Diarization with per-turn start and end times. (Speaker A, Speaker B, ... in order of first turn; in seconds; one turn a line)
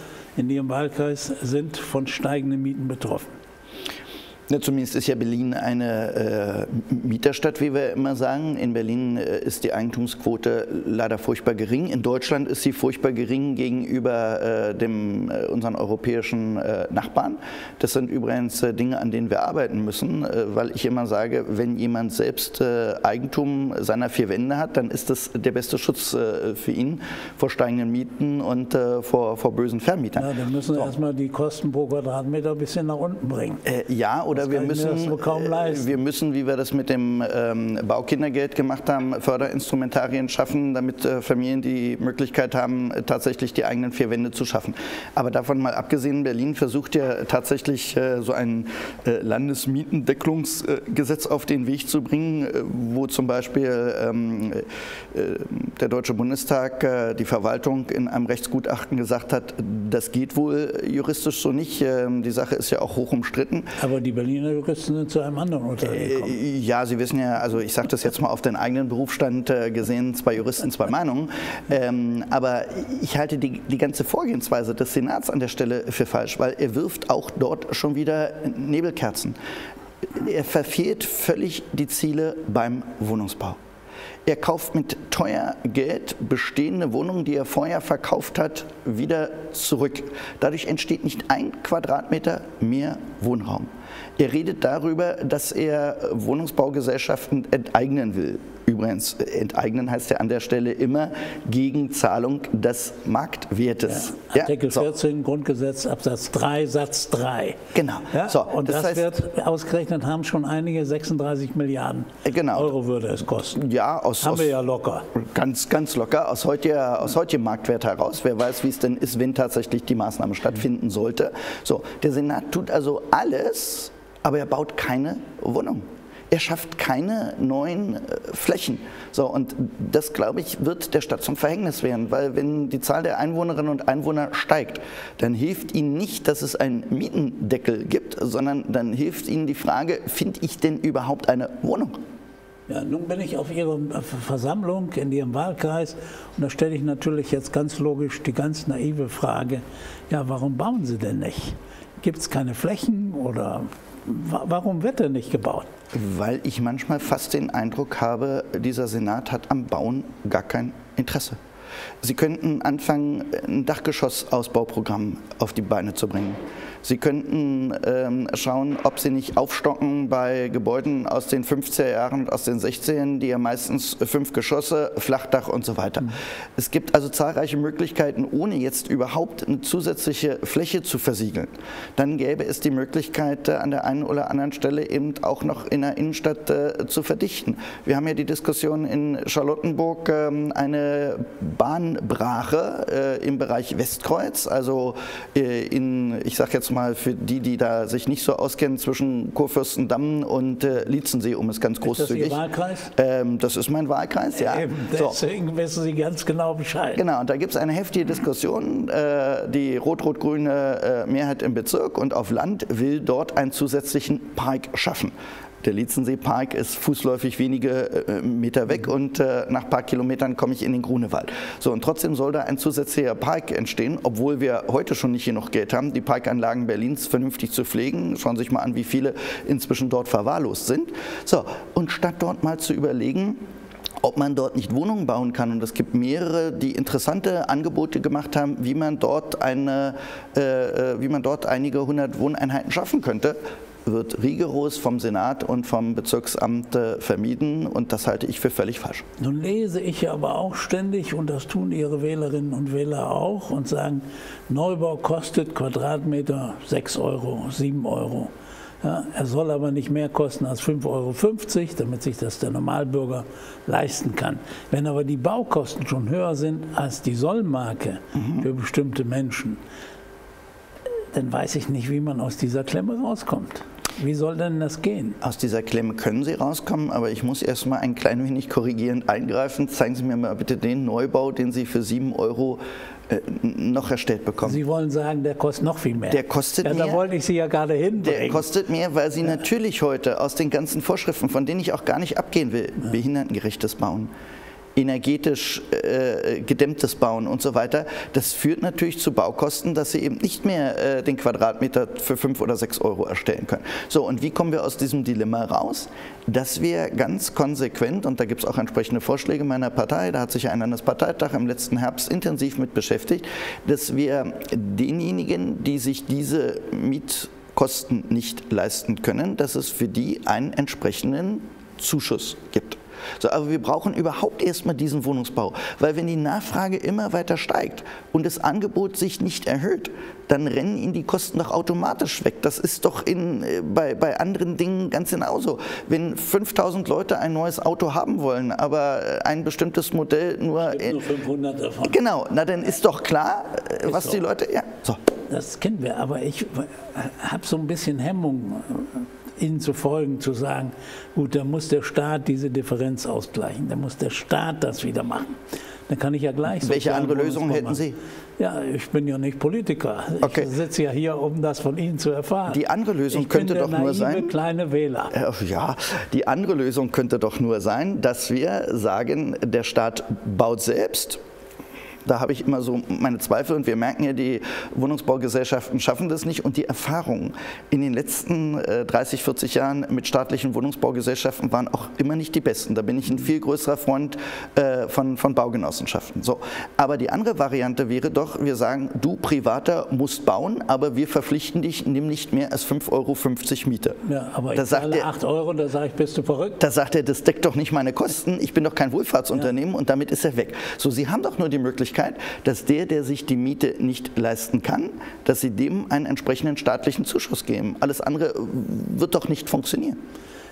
Speaker A: 0.4-3.3
Speaker B: 4.5-30.9
Speaker A: 30.2-33.6
Speaker B: 33.6-63.7
Speaker A: 34.4-36.0
Speaker A: 63.8-66.4
Speaker B: 65.8-79.4
Speaker B: 80.1-83.6
Speaker B: 84.3-104.9
Speaker A: 103.9-107.6
Speaker B: 107.7-109.1
Speaker A: 108.1-113.6
Speaker B: 112.2-112.7
Speaker B: 113.3-114.5
Speaker A: 114.2-115.1
Speaker B: 115.1-142.0
Speaker A: 142.7-155.7
Speaker B: 155.9-161.4
Speaker B: 162.0-202.4
Speaker A: 201.8-202.9
Speaker B: 202.9-205.2
Speaker A: 204.3-207.0
Speaker B: 207.0-233.4
Speaker B: 234.0-249.0
Speaker A: 249.2-258.3
Speaker A: 258.8-269.6
Speaker B: 268.1-268.4
Speaker A: 271.1-275.2
Speaker B: 275.2-284.6
Speaker A: 284.4-288.5
Speaker B: 286.1-287.0
Speaker B: 288.0-294.1
Speaker B: 294.8-341.0
Speaker A: 340.6-342.0
Speaker B: 341.9-345.0
Speaker A: 343.9-344.2
Speaker A: 345.3-355.4
Speaker A: 355.9-357.8
Speaker B: 356.5-358.0
Speaker A: 358.4-365.1
Speaker B: 360.2-360.5
Speaker B: 362.5-364.4
Speaker B: 365.1-371.2
Speaker B: 372.1-394.0
Speaker A: 394.1-396.6
Speaker B: 394.5-395.1
Speaker B: 396.6-410.0